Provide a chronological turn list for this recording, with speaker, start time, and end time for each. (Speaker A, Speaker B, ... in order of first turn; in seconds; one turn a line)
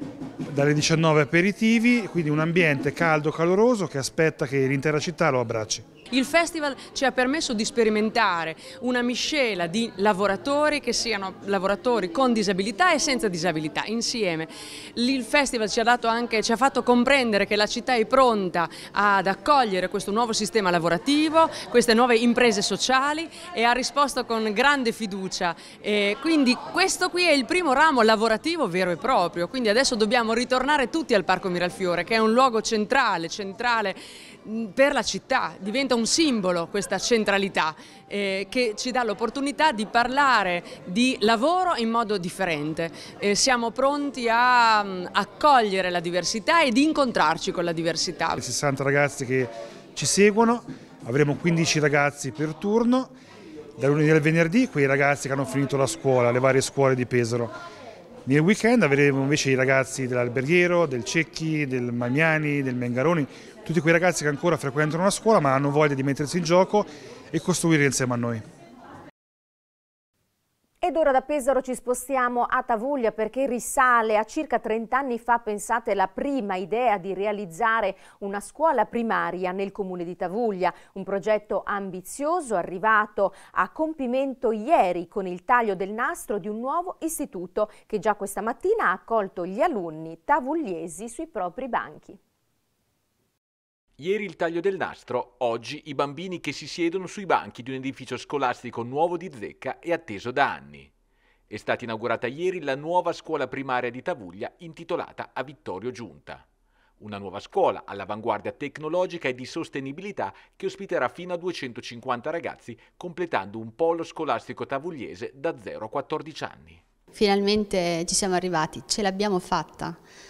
Speaker A: 0.5-5.8
Speaker B: 6.1-48.4
Speaker A: 48.4-53.1
Speaker A: 53.8-57.5
Speaker A: 58.2-68.4
Speaker C: 70.8-92.2
Speaker D: 94.0-100.9
Speaker D: 101.5-106.4
Speaker D: 107.0-116.8
Speaker E: 117.1-120.0